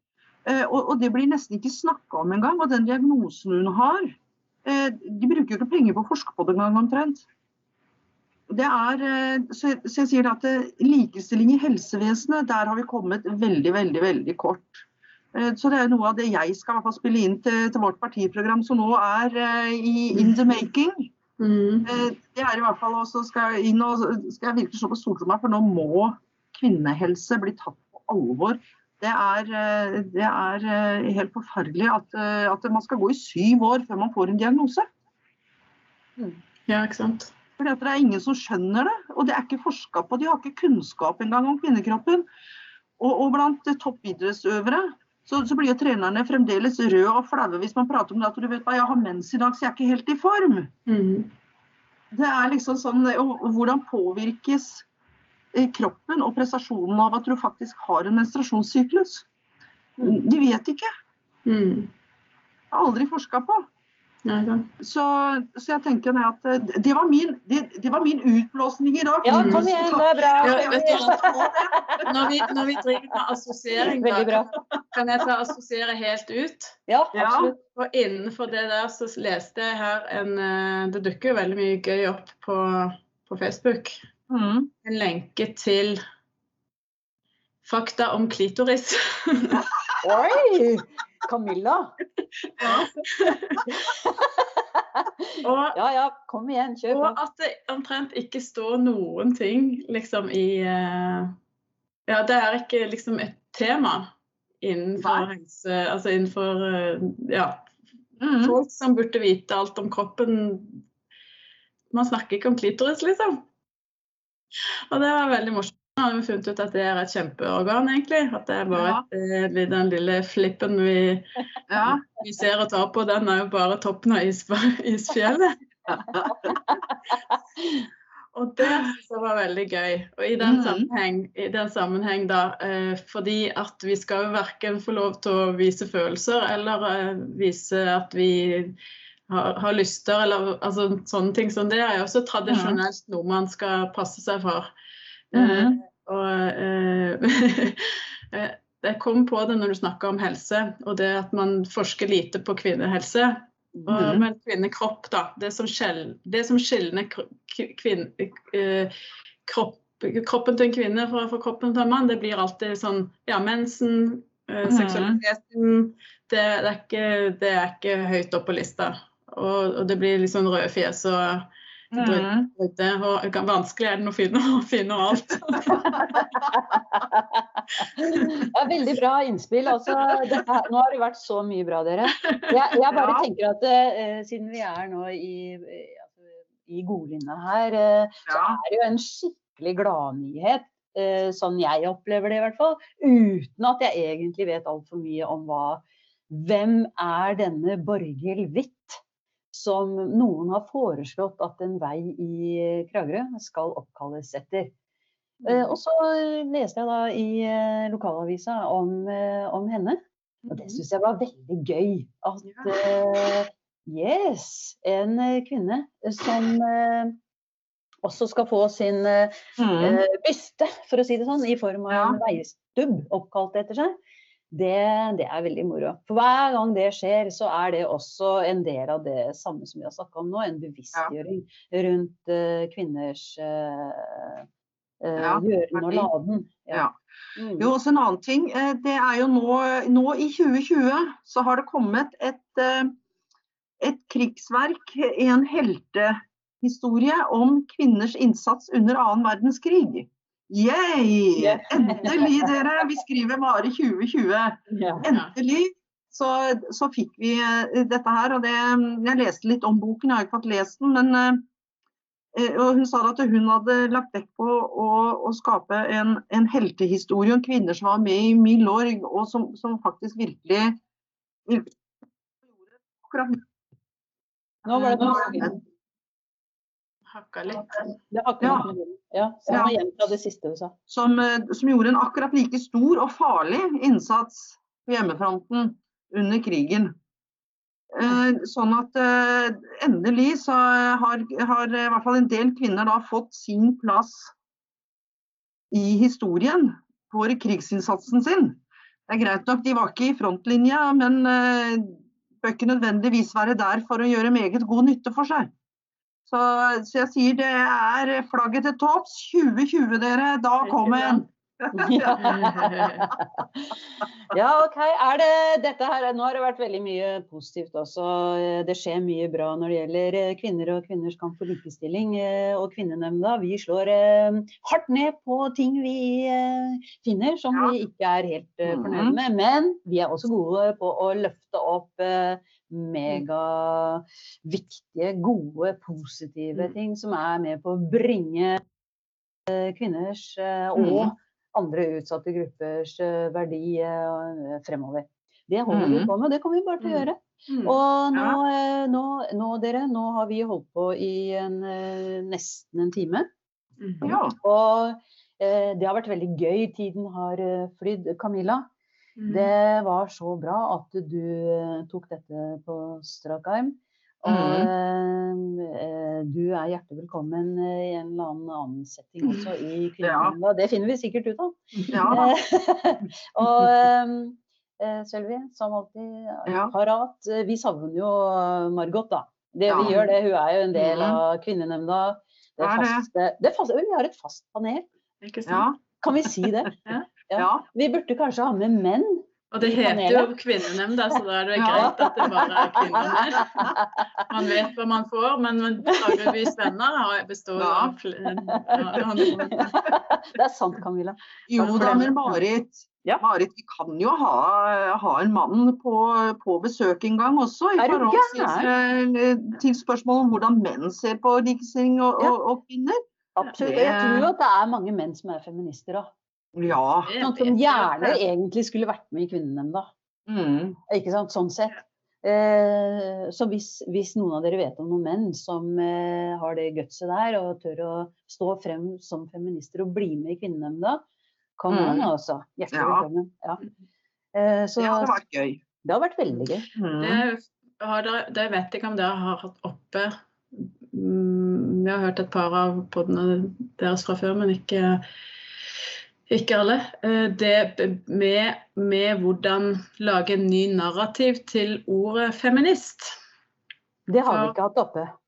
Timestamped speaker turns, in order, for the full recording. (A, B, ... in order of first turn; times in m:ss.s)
0:00.4-0:07.2 A
0:08.5-0:21.1 A
0:21.4-0:21.9 B
0:21.8-0:34.9 A
0:36.7-0:37.3 B
0:37.6-0:42.2 A
0:43.0-0:50.7 A
0:50.9-0:51.3 B
0:52.1-0:54.9 A
0:55.5-0:59.3 A
1:00.0-1:00.9 A
1:01.4-1:01.9 B
1:02.7-1:03.7 A
1:04.2-1:04.7 B
1:04.8-1:12.1 A
1:09.2-1:12.5 C
1:09.3-1:09.7 B
1:10.4-1:11.3 B
1:12.1-1:14.4 B
1:13.9-1:14.6 C
1:14.9-1:16.8 B
1:16.9-1:17.6 C
1:17.1-1:17.5 A
1:17.7-1:24.0 B
1:24.3-1:24.7 A
1:24.8-1:26.0 B
1:27.6-1:29.7 B
1:30.0-1:32.0 C
1:32.6-1:33.6 B
1:32.6-1:32.9 A
1:33.7-1:35.1 C
1:35.4-1:35.8 B
1:35.7-1:37.2 C
1:36.9-1:41.4 B
1:42.1-1:47.7 B
1:45.0-1:45.3 A
1:48.2-1:48.6 A
1:48.4-1:50.8 B
1:51.9-1:53.4 B
1:54.9-2:05.5 B
1:58.7-1:59.0 A
2:01.7-2:02.0 A
2:05.9-2:06.5 A
2:08.3-2:18.8 B
2:10.4-2:10.9 A
2:19.3-2:24.7 B
2:22.5-2:22.8 A
2:25.3-2:38.9 B
2:25.3-2:25.8 A
2:33.9-2:34.2 A
2:39.4-2:56.2 B
2:44.7-2:45.2 A
2:51.9-2:52.5 A
2:55.8-3:19.0 C
3:02.2-3:02.4 B
3:02.9-3:03.2 A
3:08.3-3:08.6 A
3:19.5-3:24.7 C
3:25.5-3:37.2 C
3:32.5-3:32.8 B
3:38.0-3:44.0 C
3:39.6-3:40.0 A
3:41.9-3:42.2 A
3:44.5-3:54.4 C
3:55.0-3:56.8 C
3:55.2-3:56.1 A
3:57.4-3:57.7 C
3:57.6-4:03.0 A
4:03.8-4:21.4 A
4:11.4-4:12.5 C
4:11.8-4:12.2 B
4:14.7-4:15.1 C
4:15.0-4:15.3 B
4:22.4-4:30.8 A
4:31.5-4:31.7 A
4:33.0-4:33.4 A
4:34.7-4:35.5 C
4:34.8-4:35.5 A
4:37.1-4:37.9 B
4:38.1-4:40.8 C
4:38.4-4:38.7 A
4:39.5-4:39.8 A
4:40.9-4:46.9 A
4:47.9-4:54.3 A
4:55.7-5:05.5 A
5:06.3-5:12.7 A
5:10.6-5:11.2 B
5:11.7-5:38.6 C
5:12.2-5:13.1 B
5:28.7-5:29.2 A
5:39.5-5:53.3 C
5:40.8-5:41.1 A
5:45.7-5:46.1 A
5:46.8-5:47.8 B
5:48.1-5:48.4 A
5:53.8-5:54.2 B
5:54.0-5:54.4 A
5:54.4-5:58.6 C
5:59.2-5:59.5 B
5:59.3-6:24.9 C
6:04.3-6:04.7 A
6:10.0-6:10.4 A
6:11.9-6:12.3 A
6:16.5-6:16.7 A
6:19.7-6:20.0 A
6:20.8-6:21.2 A
6:22.6-6:23.1 A
6:25.2-6:25.7 B
6:25.5-6:25.8 A
6:26.0-6:30.3 C
6:27.4-6:27.6 A
6:29.5-6:33.7 B
6:31.6-6:32.4 A
6:31.8-6:34.1 C
6:33.1-6:33.7 A
6:34.3-6:39.7 B
6:35.9-6:36.5 C
6:37.6-6:37.9 A
6:38.4-6:42.4 C
6:41.5-6:54.3 A
6:47.8-6:48.7 C
6:53.4-6:56.1 C
6:56.6-6:57.1 A
6:57.1-6:58.2 B
6:57.2-6:59.9 C
7:00.3-7:00.8 A
7:00.9-7:11.0 C
7:11.6-7:13.6 C
7:11.7-7:12.1 A
7:12.7-7:13.0 A
7:14.3-7:15.2 C
7:14.8-7:15.6 A
7:15.8-7:16.7 C
7:16.8-7:17.2 A
7:17.0-7:25.0 B
7:26.3-7:33.2 B
7:34.1-7:35.1 C
7:34.3-7:34.6 B